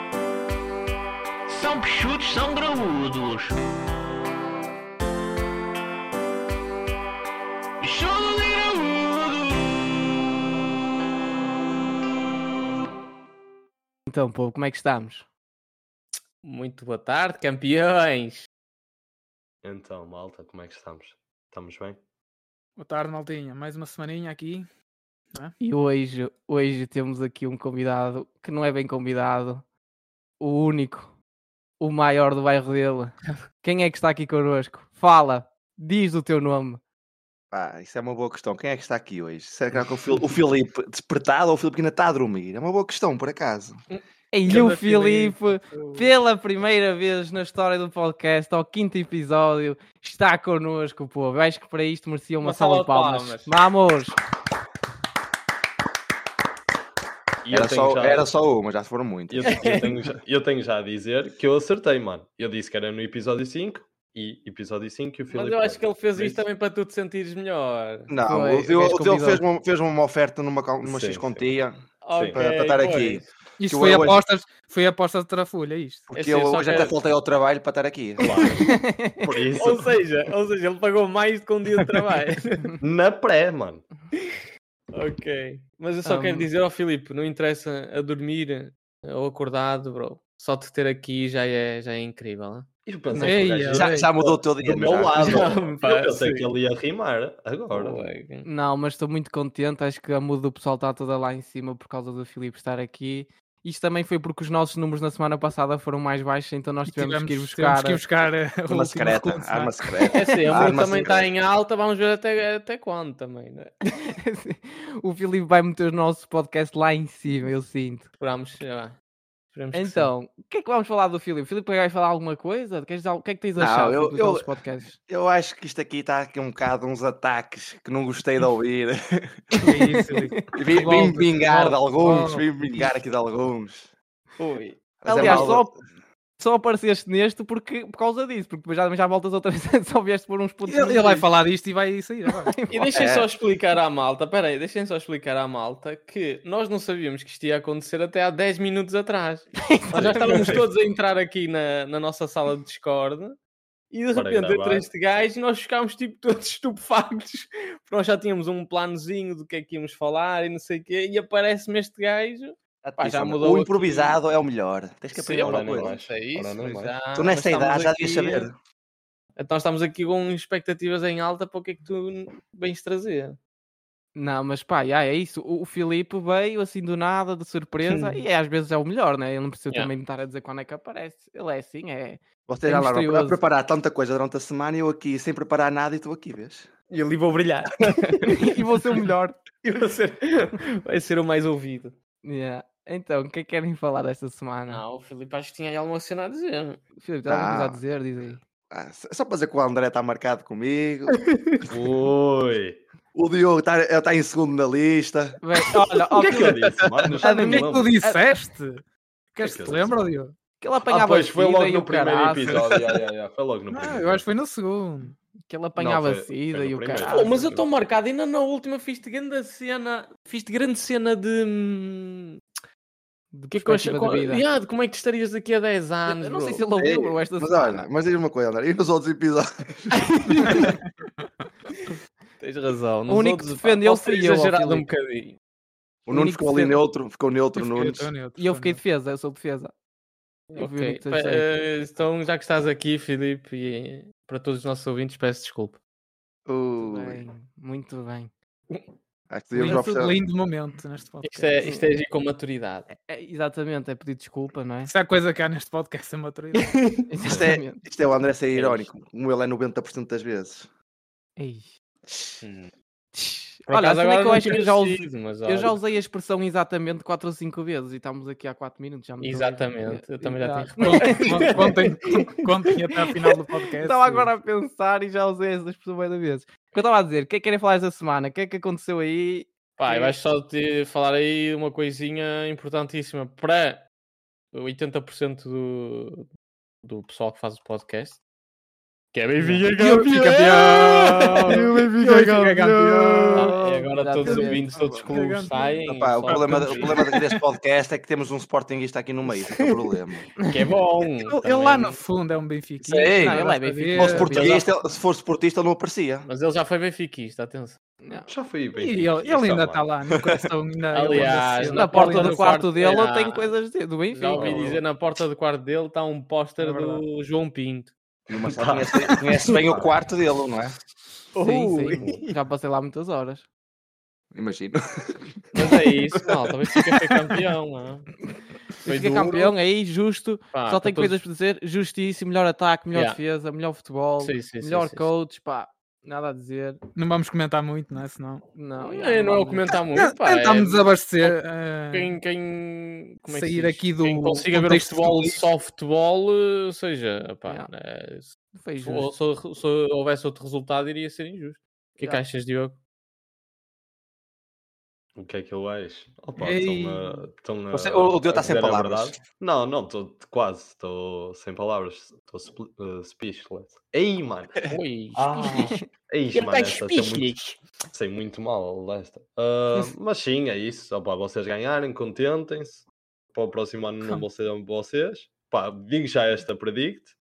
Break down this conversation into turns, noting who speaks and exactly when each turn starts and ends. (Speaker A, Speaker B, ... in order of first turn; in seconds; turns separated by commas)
Speaker A: 1.5-3.5, Speaker A: 7.8-9.6, Speaker B: 14.1-15.3, Speaker C: 16.4-18.5, Speaker D: 19.6-22.0, Speaker E: 22.8-24.7, Speaker B: 25.6-29.6, Speaker B: 30.4-31.1, Speaker B: 31.8-36.8, Speaker F: 37.5-43.8, Speaker C: 43.9-46.1, Speaker B: 44.3-54.1, Speaker C: 52.4-53.5, Speaker D: 57.4-58.3, Speaker F: 57.5-59.7, Speaker D: 59.3-66.4, Speaker C: 59.5-59.9, Speaker C: 65.3-68.1, Speaker F: 68.1-71.8, Speaker B: 68.3-69.5, Speaker D: 70.8-71.4, Speaker C: 72.0-73.3, Speaker F: 72.3-74.2, Speaker E: 73.6-76.1, Speaker F: 76.1-78.2, Speaker C: 76.1-76.9, Speaker D: 78.2-79.9, Speaker B: 78.6-79.2, Speaker C: 79.6-82.7, Speaker D: 82.8-83.8, Speaker C: 84.9-92.7, Speaker B: 86.0-86.5, Speaker D: 92.9-98.1, Speaker B: 93.1-93.5, Speaker E: 93.2-94.1, Speaker F: 93.7-95.5, Speaker C: 95.2-96.5, Speaker C: 97.7-98.5, Speaker B: 98.4-108.0, Speaker E: 106.9-109.9, Speaker F: 108.7-111.3, Speaker C: 110.1-113.8, Speaker B: 114.0-118.1, Speaker C: 118.2-119.0, Speaker C: 119.5-120.1, Speaker B: 119.7-125.0, Speaker F: 123.6-129.4, Speaker B: 129.6-130.9, Speaker E: 129.7-132.5, Speaker F: 130.5-133.9, Speaker B: 134.4-135.8, Speaker F: 135.0-135.7, Speaker D: 135.2-135.5, Speaker B: 136.4-141.3, Speaker E: 140.7-142.5, Speaker B: 142.4-143.1, Speaker C: 142.7-153.4, Speaker F: 142.9-143.3, Speaker B: 149.6-150.6, Speaker D: 149.9-150.7, Speaker C: 153.9-164.2, Speaker D: 154.1-154.9, Speaker F: 162.8-166.0, Speaker D: 165.2-167.0, Speaker C: 165.2-168.5, Speaker F: 167.1-168.6, Speaker C: 169.4-173.4, Speaker B: 174.2-183.4, Speaker C: 177.9-178.2, Speaker F: 182.5-186.7, Speaker C: 186.9-189.1, Speaker B: 188.2-189.4, Speaker C: 189.6-191.9, Speaker B: 192.2-194.8, Speaker C: 194.7-196.8, Speaker B: 197.0-198.4, Speaker F: 197.3-197.8, Speaker F: 198.7-201.2, Speaker C: 201.2-201.7, Speaker D: 201.7-202.8, Speaker F: 203.1-205.4, Speaker B: 205.4-208.2, Speaker D: 206.1-208.0, Speaker E: 207.2-208.8, Speaker E: 209.3-210.4, Speaker D: 209.4-210.0, Speaker B: 210.6-212.7, Speaker D: 210.8-214.2, Speaker E: 213.7-215.2, Speaker B: 215.5-217.3, Speaker D: 215.8-217.7, Speaker C: 216.9-222.4, Speaker B: 223.3-224.4, Speaker C: 223.5-226.6, Speaker B: 226.1-227.8, Speaker F: 226.8-229.8, Speaker C: 230.2-230.7, Speaker C: 232.4-235.4, Speaker B: 233.1-234.9, Speaker F: 236.1-238.1, Speaker B: 236.1-236.8, Speaker E: 237.6-238.8, Speaker B: 238.4-239.7, Speaker C: 240.5-245.8, Speaker B: 240.6-241.5, Speaker F: 246.5-247.2, Speaker B: 246.8-248.3, Speaker F: 249.3-250.2, Speaker E: 249.6-251.6, Speaker C: 251.2-252.9, Speaker B: 251.6-251.9, Speaker B: 252.9-254.9, Speaker E: 254.8-256.7, Speaker C: 256.6-257.0, Speaker B: 257.1-257.8, Speaker F: 257.3-260.7, Speaker B: 258.5-258.8, Speaker B: 261.4-262.3, Speaker C: 262.4-262.7, Speaker B: 263.1-271.7, Speaker C: 263.7-265.8, Speaker C: 269.2-272.4, Speaker E: 270.8-274.3, Speaker B: 273.8-280.1, Speaker C: 279.8-283.8, Speaker C: 284.5-286.3, Speaker C: 286.8-288.2, Speaker C: 289.1-291.6, Speaker B: 289.4-289.7, Speaker F: 289.8-294.4, Speaker E: 289.8-293.6, Speaker C: 293.3-297.1, Speaker B: 294.0-294.8, Speaker E: 294.3-295.7, Speaker F: 295.9-300.3, Speaker E: 296.3-297.3, Speaker B: 300.4-300.7, Speaker C: 300.5-302.0, Speaker E: 301.3-304.5, Speaker F: 302.8-303.4, Speaker B: 303.1-304.7, Speaker F: 303.9-306.3, Speaker C: 306.3-307.8, Speaker B: 308.0-308.3, Speaker D: 308.3-309.9, Speaker E: 308.8-312.5, Speaker C: 310.9-313.5, Speaker B: 311.6-314.8, Speaker C: 314.1-317.9, Speaker D: 314.4-314.8, Speaker E: 316.6-317.0, Speaker F: 318.3-320.8, Speaker D: 318.3-319.9, Speaker C: 321.3-322.2, Speaker B: 321.4-323.5, Speaker F: 324.3-326.3, Speaker C: 325.5-328.1, Speaker B: 328.8-336.8, Speaker C: 328.9-329.6, Speaker C: 330.5-331.2, Speaker C: 332.9-333.2, Speaker C: 334.2-335.1, Speaker E: 336.9-338.4, Speaker B: 338.6-339.7, Speaker C: 338.8-341.4, Speaker E: 339.9-342.2, Speaker C: 341.9-352.8, Speaker E: 343.2-345.4, Speaker B: 348.5-349.1, Speaker D: 355.2-364.6, Speaker E: 356.4-357.2, Speaker F: 357.7-359.2, Speaker C: 364.7-365.8, Speaker D: 365.1-377.1, Speaker B: 365.4-365.9, Speaker C: 366.3-367.6